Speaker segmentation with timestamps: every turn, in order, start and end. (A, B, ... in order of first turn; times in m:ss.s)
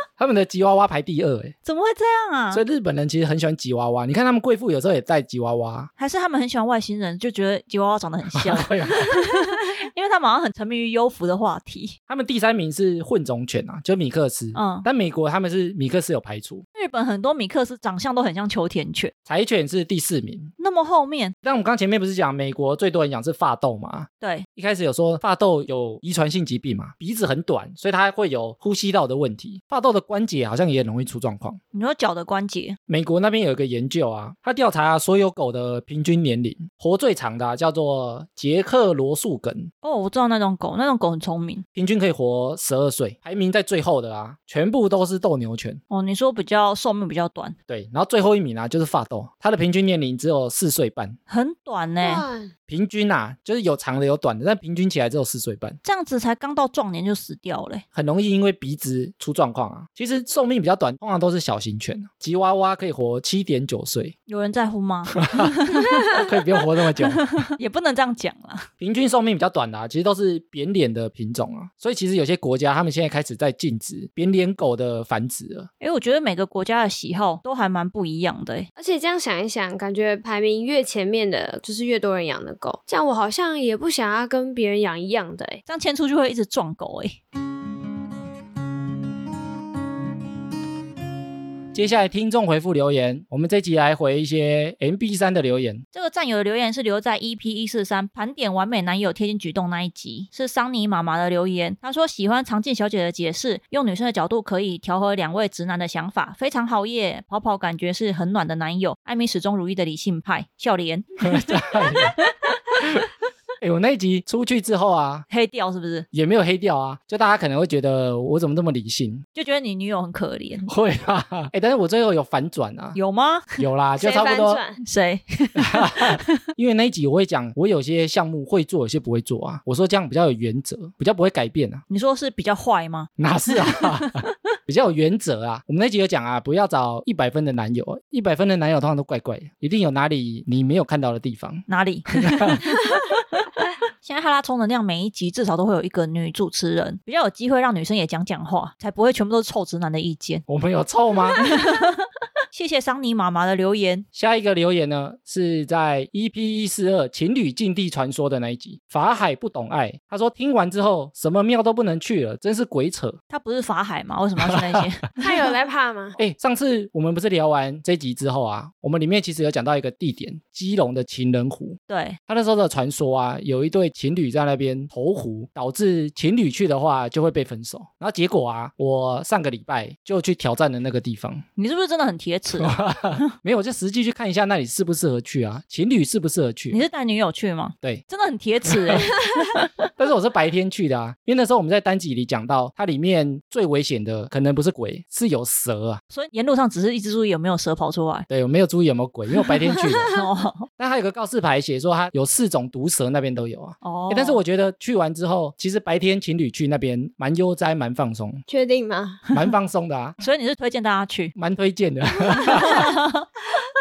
0:00.2-0:01.6 A
0:01.6-0:02.6 B
0:02.5-0:05.9 A
0:06.0-0:12.0 B
0:08.3-0:09.2 A
0:12.1-0:16.6 A
0:14.6-0:14.9 B
0:16.8-0:19.1 B
0:19.3-0:20.5 A
0:20.6-0:21.4 B
0:21.4-0:31.6 A
0:24.2-0:24.5 B
0:31.7-0:32.8 B
0:32.9-0:39.7 A
0:39.8-0:41.6 B
0:41.8-0:45.8 A
0:45.9-0:47.6 B
0:47.7-0:51.2 A
0:51.3-0:52.2 B
0:52.0-0:52.5 C
0:52.7-0:55.8 A
0:55.8-0:57.8 B
0:57.9-1:04.2 A
1:04.3-1:08.7 B
1:05.2-1:07.4 A
1:08.8-1:15.7 A
1:15.8-1:18.7 B
1:18.8-1:25.6 C
1:25.7-1:27.2 B
1:31.7-1:35.8 A
1:35.9-1:52.3 B
1:51.2-1:52.2 A
1:52.8-1:53.1 A
1:53.6-1:55.3 A
1:55.3-1:56.1 B
1:56.1-1:59.3 A
1:59.4-2:00.7 B
2:00.7-2:03.0 A
2:03.0-2:03.7 B
2:03.6-2:04.6 A
2:04.0-2:04.8 C
2:04.8-2:06.4 B
2:05.6-2:11.8 A
2:11.9-2:13.1 B
2:13.2-2:22.6 A
2:21.7-2:23.2 B
2:24.0-2:30.4 B
2:30.5-2:31.4 A
2:31.4-2:34.1 B
2:34.1-2:43.2 A
2:43.3-2:45.0 B
2:44.4-2:44.9 A
2:45.2-2:46.2 C
2:46.2-3:01.4 A
2:51.9-2:52.2 B
3:01.6-3:02.8 B
3:02.6-3:06.8 A
3:06.7-3:09.9 B
3:08.7-3:09.1 A
3:10.0-3:16.0 A
3:16.1-3:18.3 B
3:18.3-3:20.1 A
3:19.4-3:20.7 B
3:20.8-3:28.4 A
3:23.8-3:24.4 B
3:28.5-3:29.2 C
3:29.3-3:30.2 A
3:30.2-3:31.4 B
3:31.4-3:33.0 A
3:32.5-3:33.2 B